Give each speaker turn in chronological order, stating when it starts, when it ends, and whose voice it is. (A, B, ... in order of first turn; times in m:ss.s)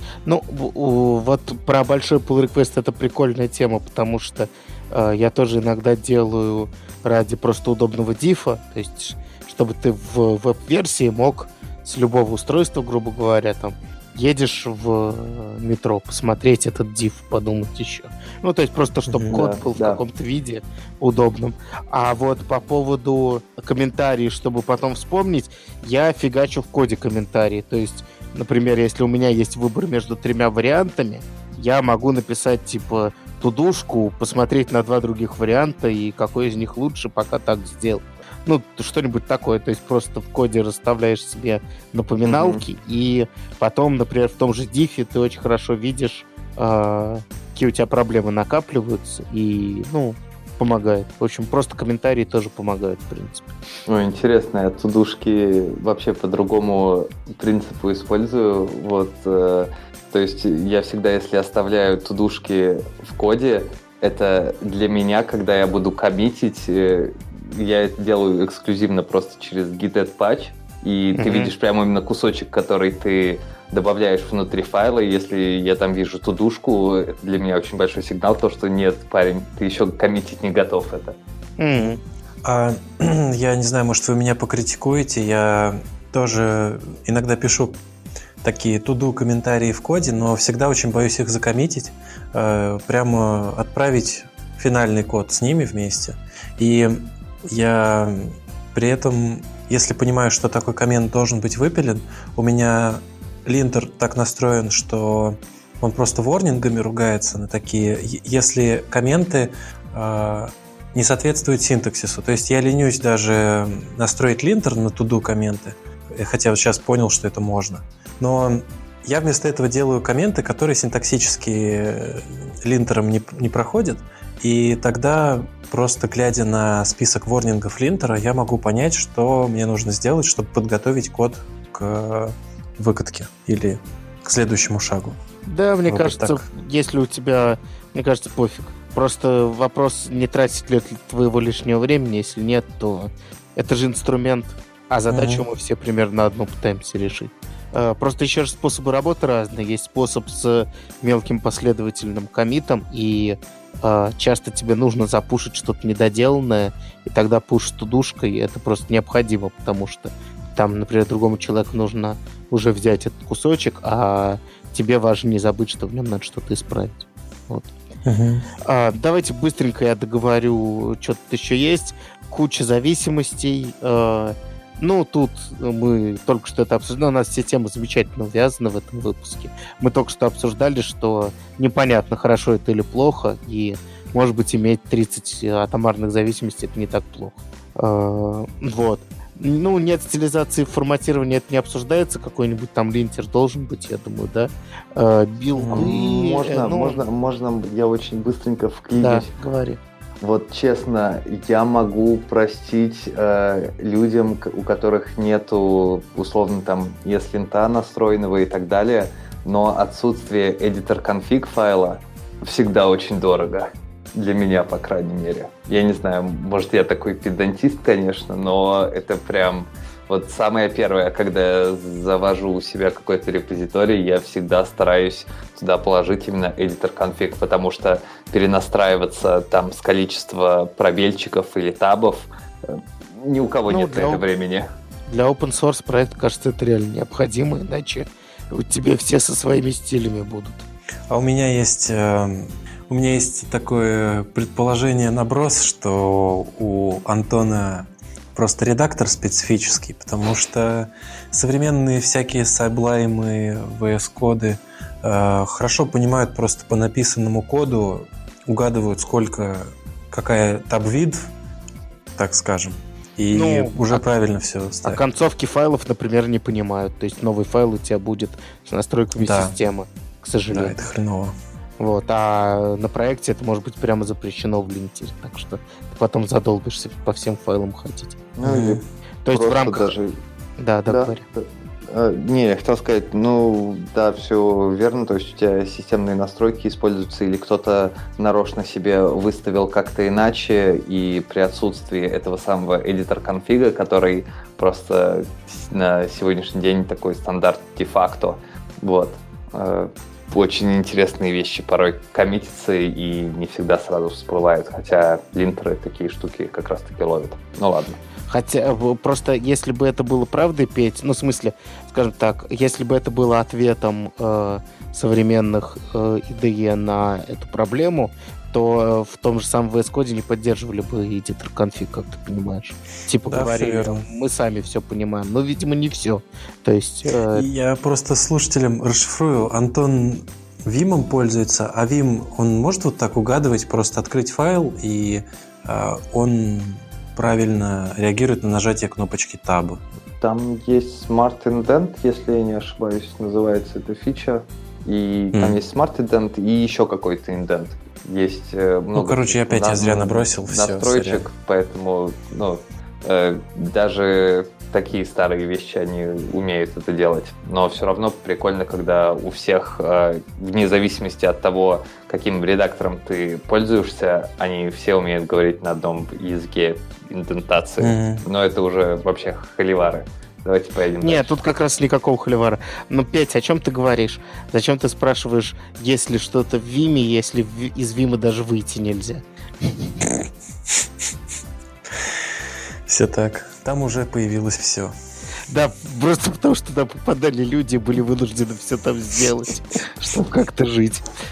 0:00.2-0:53.6 A
0:19.1-0:19.4 B
0:19.3-0:20.0 C
0:42.2-0:42.6 C
0:53.9-1:21.2 C
1:11.2-1:11.5 A
1:21.6-1:22.0 A
1:21.8-1:27.8 B
1:28.4-2:15.2 B
2:15.4-2:47.7 A
2:15.9-2:16.4 B
2:25.1-2:25.4 B
2:48.0-2:48.5 B
2:48.6-3:17.0 A
3:15.5-3:15.9 B
3:15.7-3:19.3 C
3:18.9-3:19.8 A
3:20.2-3:54.7 C
3:53.7-3:54.2 A
3:55.1-4:00.6 A
4:01.1-4:21.2 B
4:22.2-4:25.0 B
4:23.3-4:24.0 A
4:24.8-4:30.8 A
4:29.2-4:29.5 B
4:30.5-4:31.3 B
4:31.8-4:38.2 A
4:38.4-4:40.2 C
4:38.4-4:38.8 B
4:39.2-4:39.9 A
4:40.6-4:41.2 A
4:40.9-5:08.0 C
5:08.3-5:27.4 A
5:23.3-5:24.0 B
5:27.3-5:39.8 B
5:40.2-6:11.5 C
5:45.3-5:45.6 B
5:48.9-5:51.2 B
6:07.8-6:08.2 B
6:11.0-6:20.0 A
6:22.9-6:24.9 B
6:25.5-6:31.1 A